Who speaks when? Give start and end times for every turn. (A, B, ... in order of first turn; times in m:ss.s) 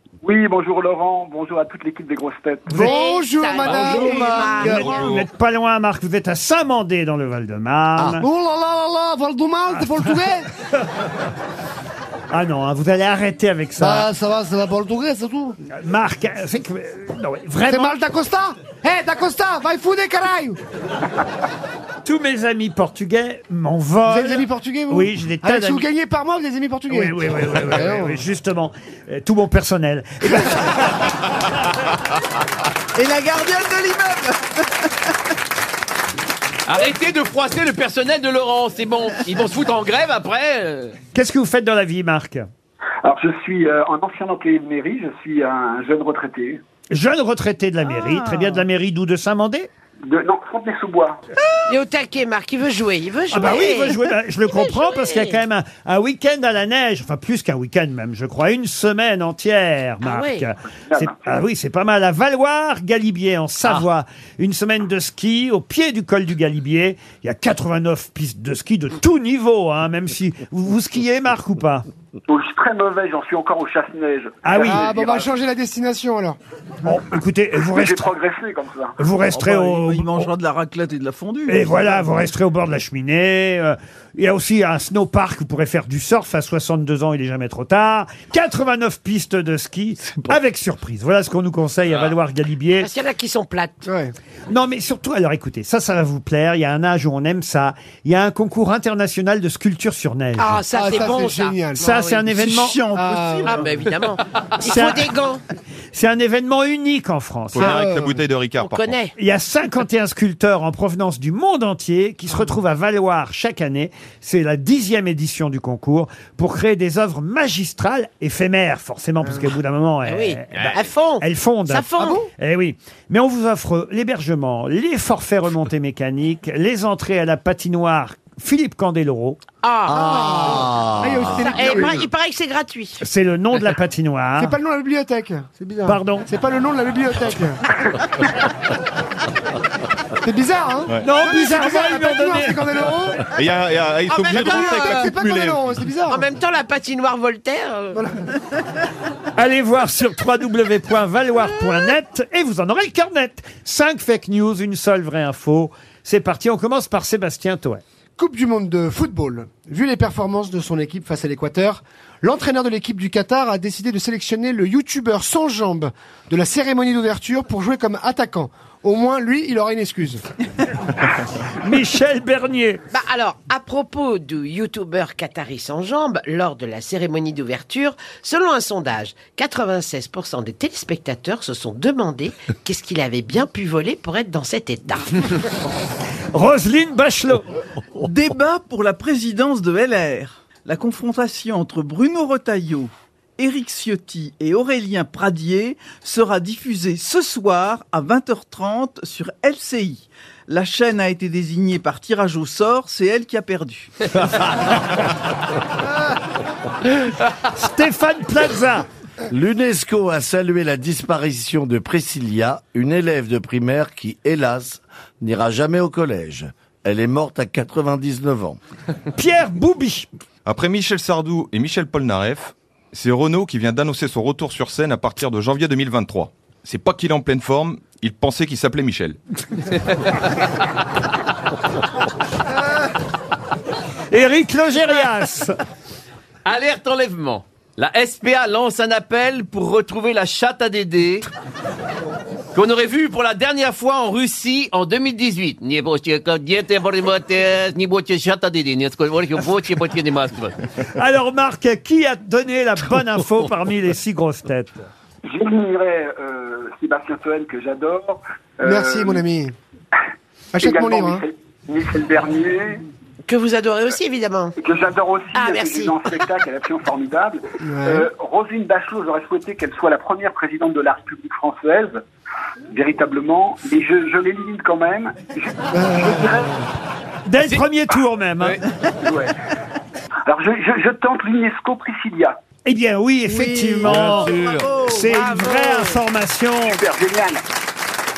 0:00.2-0:02.7 A
0:02.7-0:02.9 B
0:02.7-0:05.0 C
0:02.8-0:05.2 D
0:04.5-0:08.2 B
0:08.2-0:10.5 C
0:12.3-0:14.1 B
0:13.8-0:15.6 C
0:15.7-0:17.9 B
0:17.6-0:20.6 C
0:22.0-0:25.8 B
0:24.0-0:28.2 C
0:26.9-0:31.4 B
0:32.9-0:35.1 E
0:36.7-0:40.9 F
0:41.1-0:42.4 B
0:43.0-0:46.6 A
0:46.9-0:49.7 B
0:47.8-0:48.6 E
0:50.1-0:51.2 A
0:51.6-0:55.4 D
0:53.3-1:11.8 B
1:00.0-1:00.5 D
1:12.3-1:15.3 A
1:14.4-1:14.9 B
1:14.6-1:16.4 C
1:16.8-1:18.1 B
1:17.7-1:18.9 A
1:19.0-1:20.3 B
1:19.3-1:22.0 E
1:21.5-1:32.9 B
1:32.8-1:33.8 D
1:33.8-1:34.1 C
1:34.5-1:40.6 B
1:40.4-1:42.3 D
1:40.7-1:41.9 C
1:41.7-1:42.8 B
1:42.3-1:43.9 E
1:42.9-1:43.6 C
1:43.4-1:45.4 D
1:44.6-1:45.1 B
1:45.9-1:47.7 B
1:47.5-1:48.9 G
1:47.6-1:48.2 C
1:48.6-1:49.1 D
1:49.2-2:09.4 B
2:00.0-2:02.2 D
2:02.0-2:02.3 C
2:09.6-2:10.4 D
2:09.9-2:12.1 C
2:09.9-2:11.5 H
2:11.4-2:13.0 D
2:13.0-2:14.6 B
2:14.4-2:17.6 C
2:15.8-2:16.3 B
2:20.2-2:23.3 C
2:21.0-2:22.6 B
2:23.3-2:25.7 G
2:24.0-2:24.9 D
2:24.2-2:26.2 C
2:26.0-2:28.0 D
2:27.9-2:28.3 C
2:29.4-2:37.8 B
2:38.2-2:50.2 C
2:51.6-2:52.8 B
2:52.9-3:05.4 D
3:06.3-3:07.5 B
3:08.0-3:24.1 E
3:27.4-3:28.8 B
3:29.3-3:38.6 H
3:39.1-3:40.1 B
3:40.4-3:49.2 G
3:54.1-3:55.6 B
3:56.4-4:01.3 F
4:02.5-4:10.6 F
4:10.8-4:14.8 B
4:15.3-4:19.2 A
4:18.6-4:19.5 C
4:20.5-4:21.2 C
4:20.6-4:22.8 A
4:23.3-4:24.6 D
4:24.6-4:31.9 A
4:25.3-4:26.4 D
4:27.6-4:28.1 C
4:32.7-4:36.4 A
4:35.7-4:36.7 C
4:37.2-4:38.6 B
4:40.3-4:42.3 A
4:42.6-4:46.8 B
4:43.3-4:45.6 E
4:45.4-4:45.8 F
4:46.7-4:47.4 A